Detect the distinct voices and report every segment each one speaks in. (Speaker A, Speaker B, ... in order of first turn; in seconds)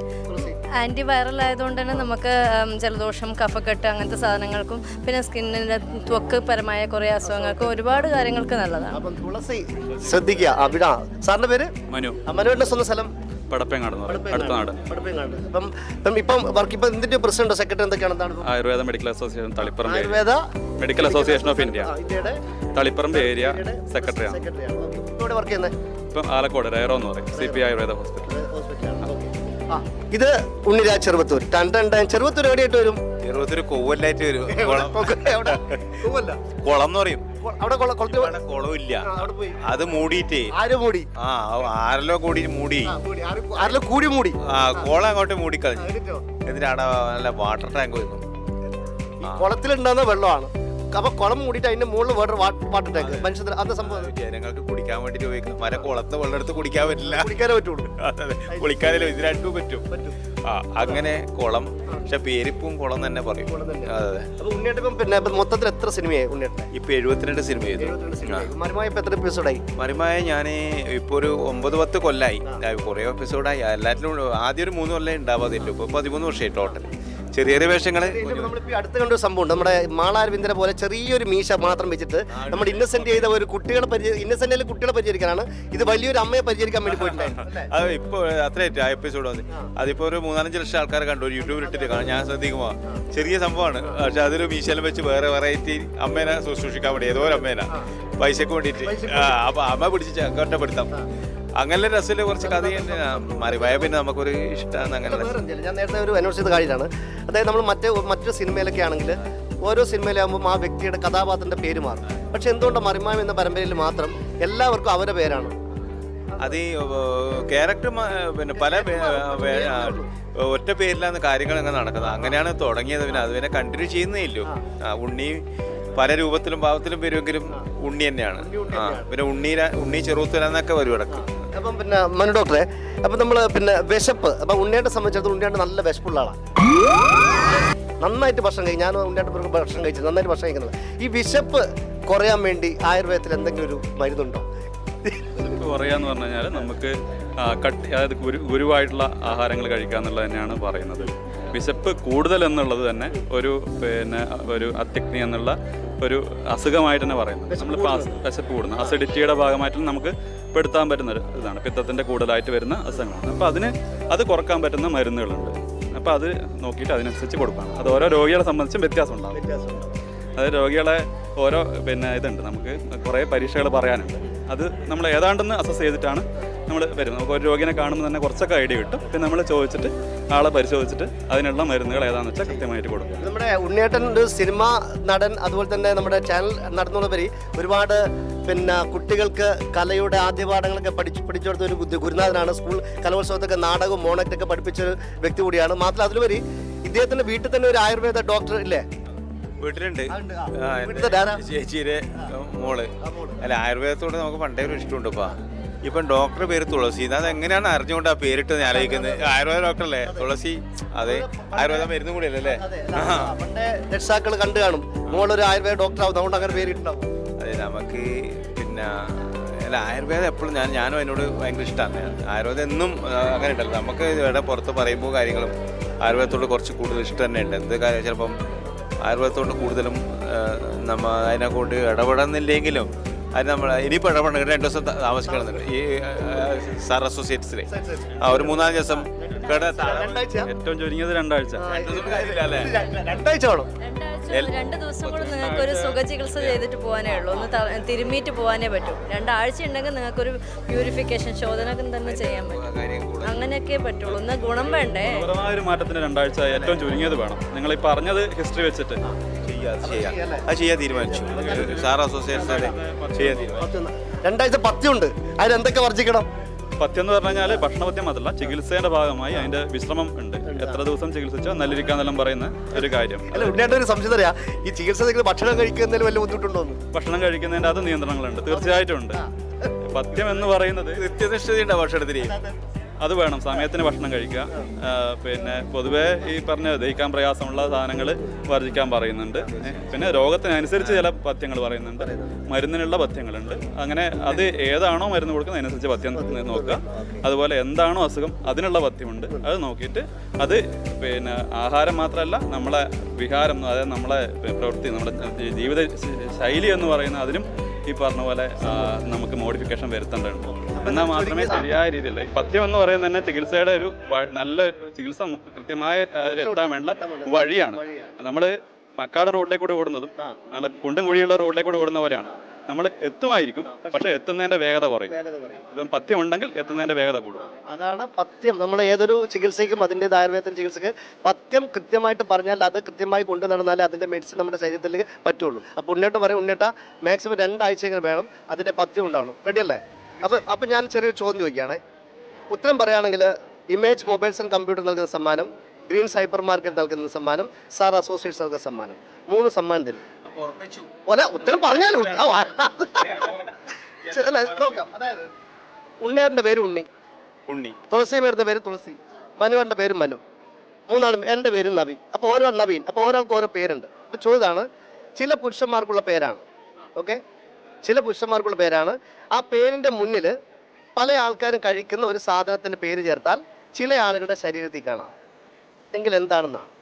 Speaker A: 0.3-0.6, 7.2-8.1, 8.9-11.7, 12.3-13.1, 14.1-18.5, 19.8-20.4, 20.9-22.4, 23.1-25.7, 27.3-27.6, 28.3-33.0, 34.5-36.4, 37.4-38.4, 39.0-39.7, 40.5-41.1, 42.8-44.9, 45.8-46.3, 49.2-54.1, 57.0-57.9, 58.5-58.9, 59.9-60.2, 60.8-61.1, 63.4-66.7, 67.8-69.6, 78.0-87.7, 91.4-92.2, 97.3-97.9, 98.8-99.4, 102.4-104.0, 105.0-115.5, 116.3-116.6, 118.5-120.1, 128.4-129.1, 131.1-136.4, 138.0-144.4, 145.0-145.6, 157.5-158.2, 169.3-169.9, 183.2-198.8, 200.1-201.4, 203.0-203.4, 208.6-209.3, 210.0-210.3, 211.0-217.1, 235.2-235.6, 237.7-240.5, 241.6-243.7, 259.8-261.9, 262.4-262.7, 263.6-266.3, 270.5-270.8, 272.7-276.8, 278.5-279.7, 282.2-282.6, 292.0-292.3, 296.1-297.2, 310.5-311.7, 316.3-318.1, 325.1-325.6, 327.6-341.8, 342.5-350.0, 351.1-353.5, 354.1-355.3, 356.0-356.9, 357.9-360.2, 360.9-364.7, 365.2-366.4, 367.8-370.3, 371.0-375.1, 375.9-376.7
Speaker B: 0.8-9.0, 243.8-252.6, 253.2-255.2
Speaker C: 11.9-12.2, 13.5-14.8, 18.4-20.2, 20.8-21.9, 22.8-24.4, 26.1-28.3, 145.5-169.4, 170.4-183.3, 240.5-241.6, 245.1-246.6, 255.1-259.0, 261.4-263.7, 266.8-273.5, 276.9-279.2, 279.9-281.0, 283.0-325.1, 325.7-327.5
Speaker D: 33.2-35.4, 36.6-37.2, 38.1-39.1, 39.6-40.5, 41.2-42.9, 44.5-45.9, 46.5-48.2, 53.0-57.3, 58.0-59.9, 60.5-64.3, 66.7-68.5, 69.8-78.5, 82.3-83.3, 86.9-101.0, 101.6-105.4, 116.4-125.4, 126.0-131.3, 199.6-202.9, 203.4-213.3, 217.4-228.4, 229.0-237.7, 238.2-240.2, 241.7-242.7, 244.3-245.7, 252.0-255.0, 256.5-257.0, 259.5-263.7, 281.0-282.3, 289.4-290.0, 290.8-291.1, 357.5-357.8